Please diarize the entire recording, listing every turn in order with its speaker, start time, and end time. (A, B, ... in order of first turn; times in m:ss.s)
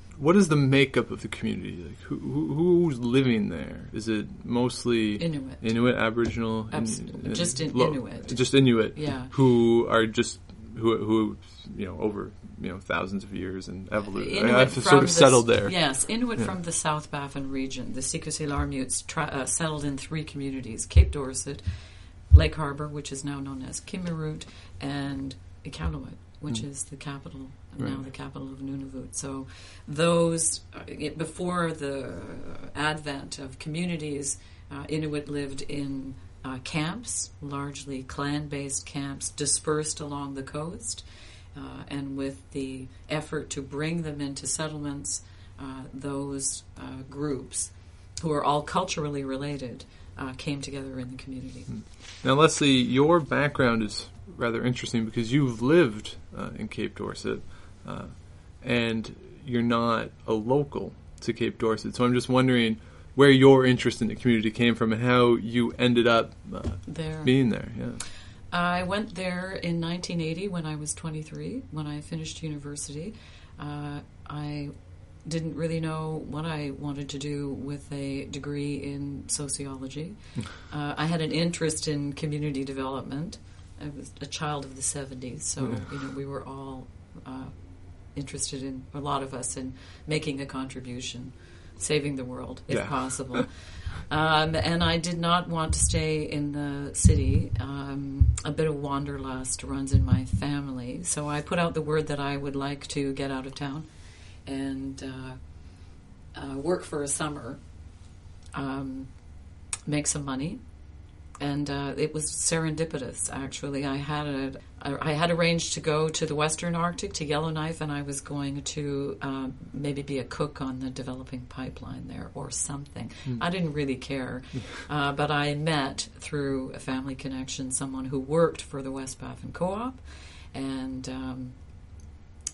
0:00.2-0:16.5 A
0:05.2-0:06.0 B
0:06.7-0:09.3 B
0:14.2-0:51.7 B
0:27.8-0:28.1 A
0:51.7-1:08.0 A
1:06.9-1:48.0 B
1:25.6-1:25.9 A
1:32.7-1:33.5 A
1:48.5-2:12.0 B